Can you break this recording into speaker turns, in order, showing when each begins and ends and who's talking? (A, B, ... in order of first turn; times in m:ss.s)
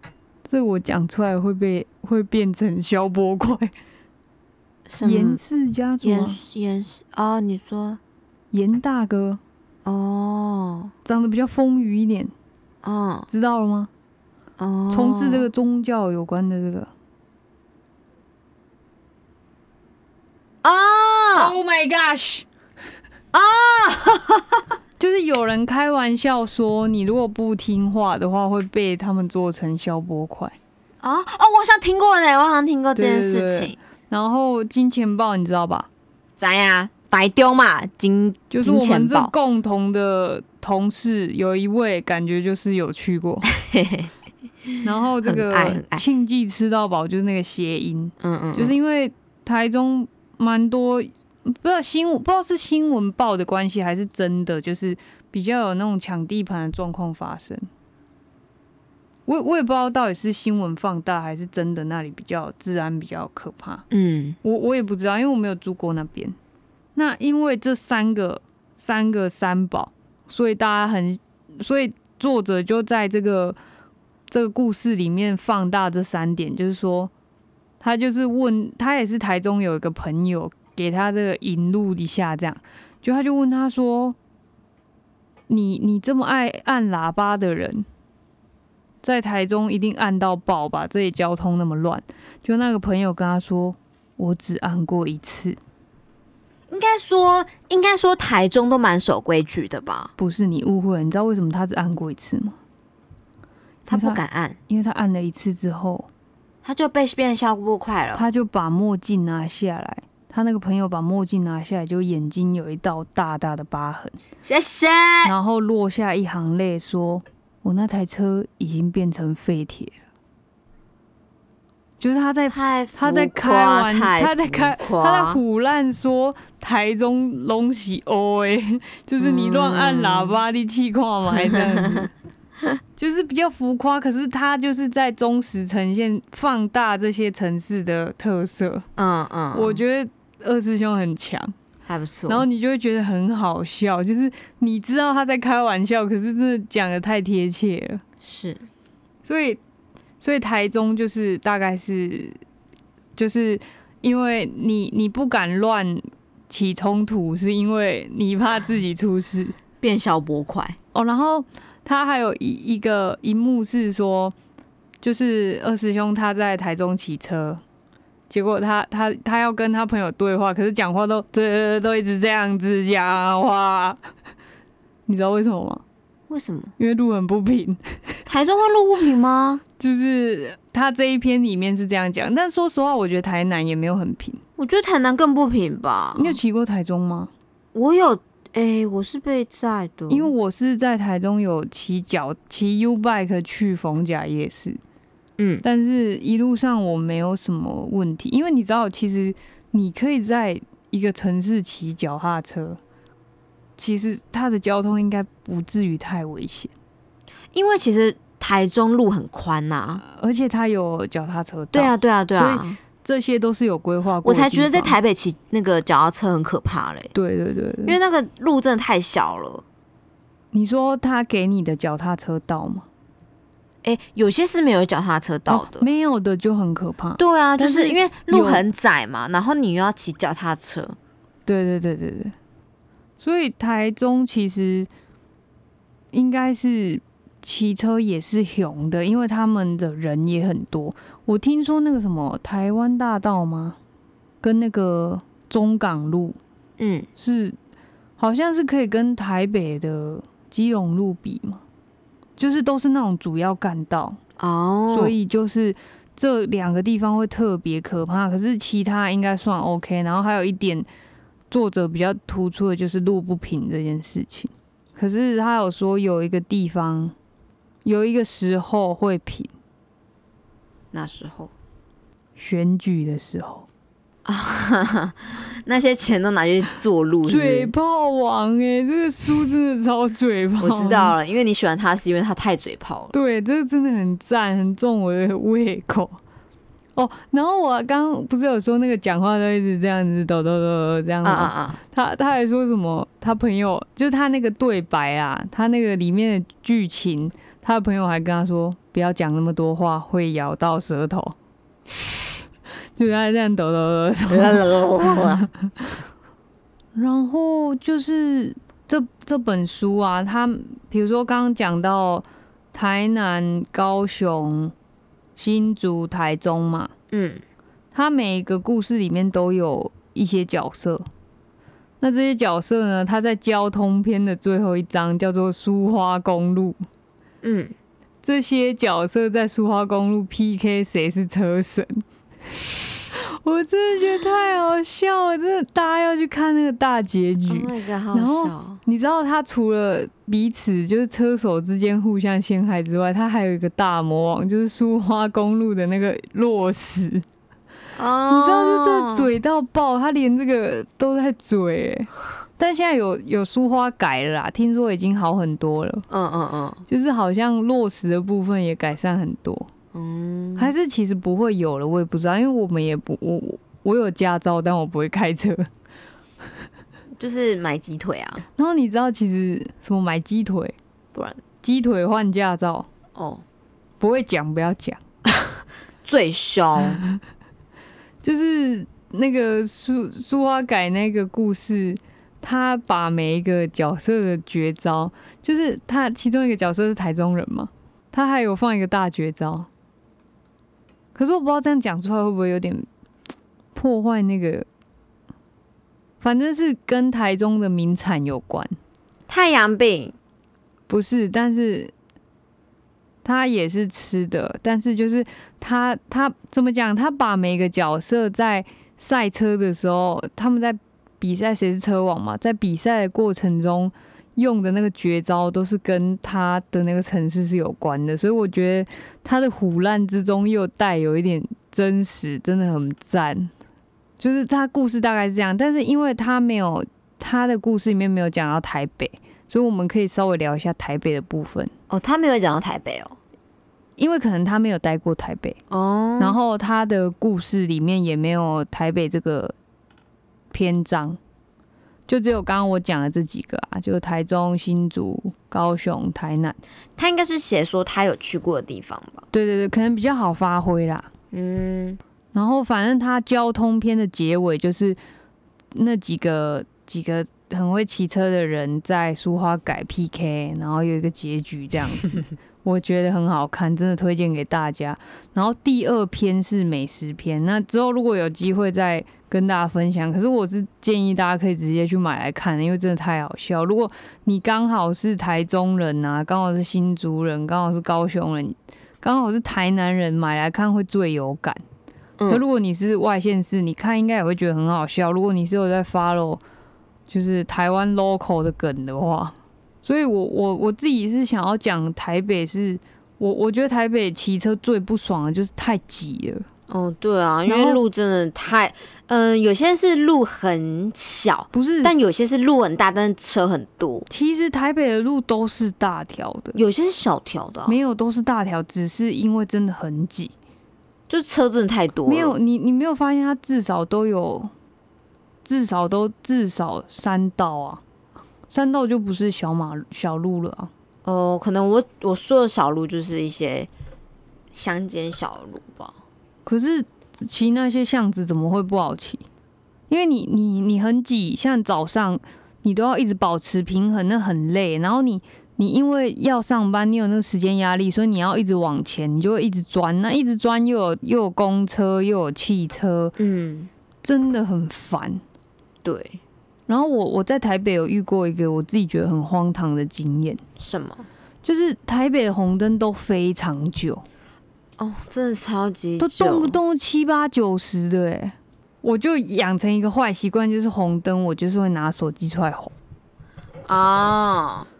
0:00.5-0:03.7 A
0:04.9-0:05.4 B
0:05.0-0:06.4 A
0:06.0-0:08.0 B
0:08.5-0:09.4 A
0:09.8-0:10.9 B
0:11.0-0:12.3 A
0:12.8-0:13.3 B
0:13.3-0:13.9 A
0:14.6-0:15.5 B
0:14.9-0:16.9 A
0:20.6-0:21.5 B
0:21.3-0:22.4 A
0:23.3-0:24.6 B
0:25.0-0:30.6 A
0:31.0-0:33.8 B
0:32.9-0:35.9 A
0:36.4-0:39.3 B
0:38.5-0:43.5 A
0:43.5-0:44.1 B
0:44.7-0:46.0 B
0:44.8-0:57.6 A
0:48.2-0:48.7 B
0:59.3-1:03.8 A
1:03.9-1:04.4 B
1:04.4-1:06.4 A
1:07.0-1:13.6 A
1:14.3-1:17.1 A
1:17.8-1:24.2 A
1:25.5-1:27.8 A
1:29.0-1:35.6 A
1:36.7-1:40.1 B
1:40.2-1:42.6 A
1:43.8-1:44.6 B
1:43.9-1:46.1 A
1:46.6-1:48.2 B
1:48.1-1:54.2 A
1:54.4-1:55.3 B
1:55.2-2:00.0 A
2:02.0-2:12.1 A
2:02.5-2:05.4 B
2:09.2-2:10.4 B
2:11.4-2:12.0 B
2:13.0-2:18.8 A
2:19.0-2:19.8 B
2:19.5-2:21.5 A
2:21.9-2:22.4 B
2:22.3-2:28.0 A
2:28.2-2:28.6 B
2:29.2-2:29.6 A
2:30.2-2:32.4 A
2:33.2-2:39.6 A
2:39.8-2:40.8 B
2:40.9-2:44.3 A
2:45.0-2:47.6 A
2:48.3-2:54.0 A
2:55.1-2:55.8 A
2:56.3-2:56.7 B
2:56.8-2:57.8 A
2:58.3-2:59.6 B
2:59.8-3:04.4 A
3:04.6-3:06.4 B
3:06.1-3:07.3 A
3:07.7-3:10.3 B
3:10.1-3:14.8 A
3:15.4-3:15.6 B
3:15.6-3:22.8 A
3:23.8-3:26.7 A
3:27.5-3:30.0 B
3:30.0-3:34.9 A
3:31.7-3:32.8 B
3:34.2-3:37.1 B
3:37.1-3:38.0 A
3:37.8-3:39.6 B
3:40.5-3:42.8 A
3:43.8-3:45.8 B
3:45.5-3:48.6 A
3:47.2-3:51.0 B
3:51.4-3:52.3 A
3:53.2-3:54.9 A
3:56.1-4:03.8 A
4:04.4-4:06.4 A
4:06.8-4:07.1 B
4:07.2-4:07.6 A
4:08.2-4:11.6 A
4:12.4-4:14.2 A
4:14.4-4:15.1 B
4:14.9-4:20.9 A
4:21.5-4:27.1 A
4:27.8-4:29.5 A
4:30.9-4:31.5 B
4:32.4-4:33.7 A
4:34.2-4:37.7 B
4:37.2-4:41.1 A
4:40.6-4:43.1 B
4:43.1-4:46.2 A
4:47.0-5:01.4 A
4:51.2-4:51.8 B
5:03.0-5:05.7 A
5:04.3-5:05.5 B
5:06.9-5:14.7 A
5:15.4-5:16.9 A
5:17.1-5:17.4 B
5:17.9-5:21.1 A
5:22.0-5:26.8 A
5:27.4-5:27.7 B
5:28.2-5:32.0 A
5:33.1-5:47.2 A
5:37.5-5:38.8 B
5:47.9-5:49.3 B
5:48.3-5:56.0 A
5:56.1-5:56.8 B
5:56.9-5:59.7 A
5:59.9-6:00.7 B
6:00.6-6:05.7 A
6:07.2-6:08.4 B
6:08.6-6:10.8 A
6:11.1-6:11.4 B
6:11.6-6:12.9 A
6:13.1-6:13.4 B
6:14.0-6:15.0 A
6:15.3-6:17.0 B
6:18.2-6:29.7 A
6:31.1-6:32.9 A
6:33.7-6:34.7 A
6:36.2-6:38.8 A
6:39.3-6:40.1 B
6:40.9-6:41.9 A
6:43.2-7:03.5 A
7:04.2-7:11.7 A
7:11.9-7:13.2 B
7:14.0-7:15.6 A
7:15.7-7:16.4 B
7:16.2-7:19.5 A
7:20.5-7:21.2 A
7:22.1-7:26.6 A
7:27.0-7:29.2 B
7:29.3-7:31.1 A
7:31.3-7:32.0 B
7:32.3-7:35.0 A
7:35.7-8:01.6 A
8:02.3-8:06.4 A
8:07.1-8:16.4 A
8:16.7-8:24.1 B
8:17.5-8:17.8 A
8:21.5-8:21.9 A
8:24.1-8:26.6 A
8:26.5-8:27.8 B
8:27.6-8:30.3 A
8:31.1-8:32.3 B
8:32.1-8:34.5 A
8:35.4-8:37.8 A
8:38.5-8:40.7 A
8:41.0-8:43.7 B
8:44.5-8:46.0 B
8:46.4-8:49.2 A
8:49.9-9:03.1 A
9:03.2-9:03.7 B
9:04.0-9:05.2 A
9:05.8-9:06.2 B
9:06.7-9:10.4 A
9:10.6-9:11.0 B
9:11.4-9:14.0 A
9:14.8-9:16.6 B
9:16.0-9:22.7 A
9:23.6-9:24.7 B